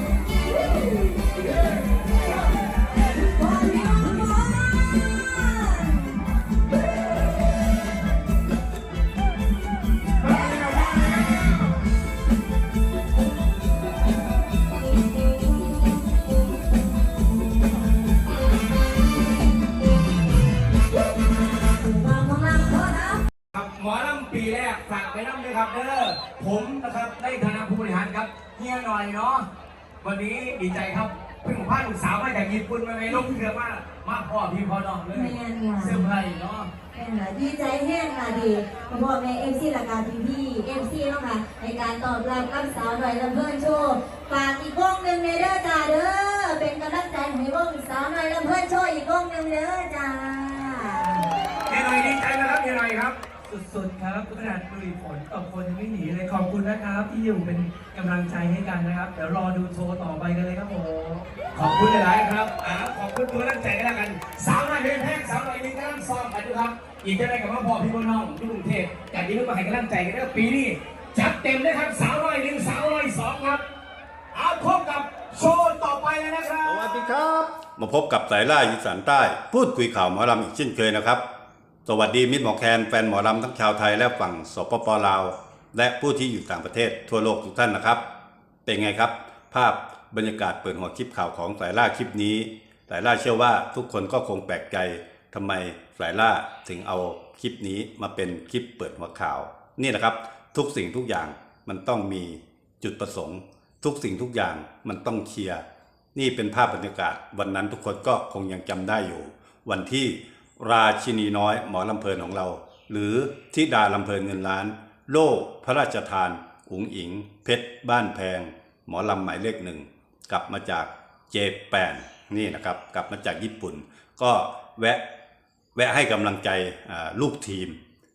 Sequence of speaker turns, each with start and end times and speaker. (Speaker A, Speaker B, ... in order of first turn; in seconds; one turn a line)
Speaker A: 0.6-1.1
Speaker A: 3.2-6.2
Speaker A: 21.6-23.2
Speaker B: 23.5-29.5
Speaker B: 30.0-36.7
Speaker A: 35.1-36.0
Speaker A: 36.9-51.2
Speaker B: 51.7-53.2
Speaker C: 53.5-61.3
Speaker B: 61.5-73.6
Speaker B: 74.3-76.9
Speaker D: 76.7-81.2
Speaker D: 81.8-88.0
Speaker D: 88.7-105.6
Speaker D: 106.1-125.0
Speaker D: 125.8-127.8